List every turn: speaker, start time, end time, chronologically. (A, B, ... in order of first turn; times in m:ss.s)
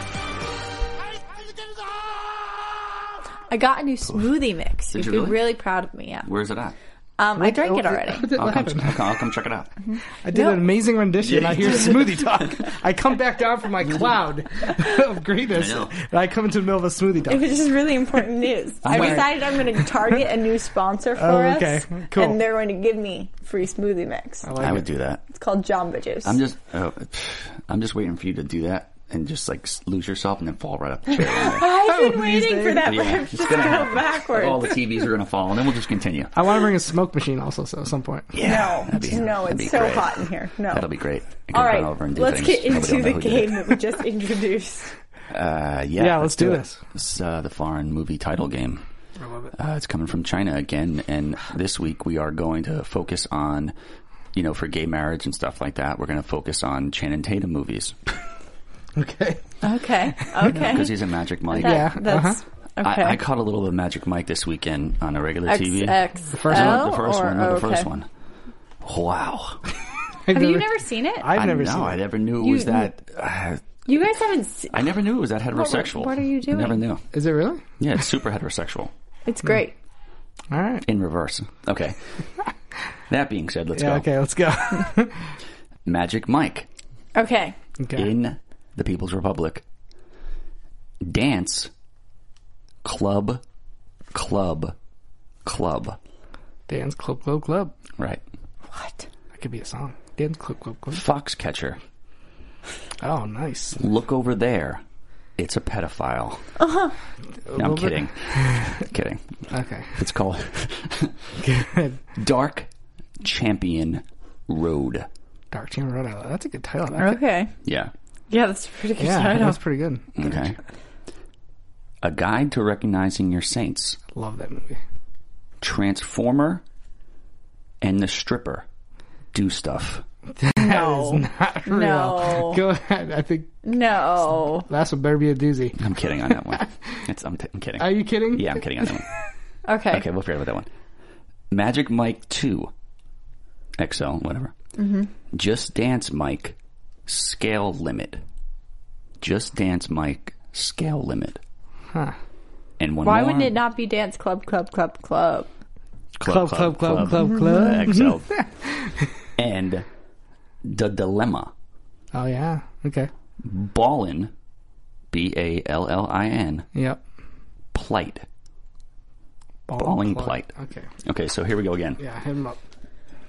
0:03.5-0:06.3 A
0:04.9-0:05.4 B
0:06.2-0:06.8 B
0:07.2-0:08.3 A
0:07.4-0:09.2 C
0:08.4-0:09.7 B
0:09.9-0:10.6 A
0:10.2-0:17.5 C
0:11.2-0:12.4 B
0:15.5-0:16.0 B
0:17.3-0:24.5 A
0:18.8-0:19.6 B
0:18.9-0:19.3 C
0:21.2-0:22.4 C
0:24.4-0:24.9 C
0:24.6-0:25.2 B
0:25.3-0:26.4 A
0:26.2-0:31.7 B
0:31.4-0:34.7 A
0:31.6-0:33.1 C
0:32.8-0:36.3 B
0:36.3-0:38.4 C
0:38.3-0:43.8 B
0:38.4-0:40.9 A
0:41.5-0:44.9 A
0:45.3-0:48.8 B
0:46.0-0:46.8 C
0:49.2-0:49.5 C
0:49.6-0:53.7 B
0:54.3-0:58.0 B
0:59.0-0:59.4 C
0:59.6-1:01.0 A
1:00.5-1:02.0 B
1:01.5-1:03.2 A
1:01.6-1:02.4 C
1:02.8-1:08.1 B
1:05.5-1:07.9 A
1:06.3-1:06.9 C
1:08.8-1:09.6 B
1:10.3-1:12.0 C
1:10.3-1:11.3 A
1:11.3-1:13.6 B
1:12.4-1:12.9 A
1:13.9-1:14.8 A
1:14.7-1:17.0 B
1:15.5-1:16.8 A
1:17.1-1:17.6 C
1:17.8-1:18.9 B
1:19.3-1:19.8 A
1:20.5-1:20.8 C
1:20.8-1:22.0 B
1:23.1-1:24.1 B
1:23.7-1:25.3 C
1:25.9-1:26.7 B
1:27.2-1:27.6 A
1:27.8-1:28.1 C
1:28.0-1:29.6 B
1:31.0-1:31.7 B
1:32.8-1:33.4 B
1:34.1-1:34.7 B
1:35.4-1:36.0 B
1:36.7-1:37.8 C
1:38.7-1:39.1 A
1:39.3-1:41.0 C
1:40.9-1:41.8 B
1:43.0-1:43.8 C
1:43.8-1:44.8 B
1:45.4-1:46.4 B
1:46.6-1:46.9 A
1:47.5-1:48.7 C
1:47.6-1:49.2 B
1:49.5-1:50.0 C
1:50.0-1:51.3 B
1:51.4-1:52.0 C
1:52.2-1:52.7 B
1:53.2-1:55.1 B
1:55.5-1:57.2 C
1:57.0-1:57.5 A
1:57.6-1:57.9 B
1:58.3-1:59.6 A
1:59.0-2:00.5 C
2:00.2-2:00.6 B
2:02.0-2:04.0 B
2:04.1-2:04.8 C
2:05.6-2:06.6 B
2:07.8-2:08.6 B
2:09.3-2:10.0 B
2:10.4-2:13.6 C
2:10.6-2:12.6 A
2:13.6-2:14.7 A
2:14.7-2:15.8 C
2:15.8-2:19.1 B
2:17.8-2:18.9 C
2:19.7-2:20.0 A
2:19.9-2:20.7 B
2:21.5-2:22.7 B
2:23.8-2:24.5 B
2:24.8-2:25.1 A
2:25.3-2:26.6 B
2:27.1-2:28.2 B
2:29.2-2:31.4 B
2:32.8-2:33.6 B
2:33.0-2:35.5 A
2:36.2-2:38.4 B
2:36.2-2:39.1 C
2:37.3-2:37.8 A
2:39.4-2:39.8 B
2:40.6-2:41.5 B
2:42.1-2:43.1 C
2:43.4-2:44.3 B
2:45.1-2:46.7 B
2:46.8-2:47.0 C
2:47.7-2:48.2 B
2:49.7-2:50.9 C
2:49.8-2:50.5 B
2:51.0-2:52.0 B
2:52.0-2:52.6 C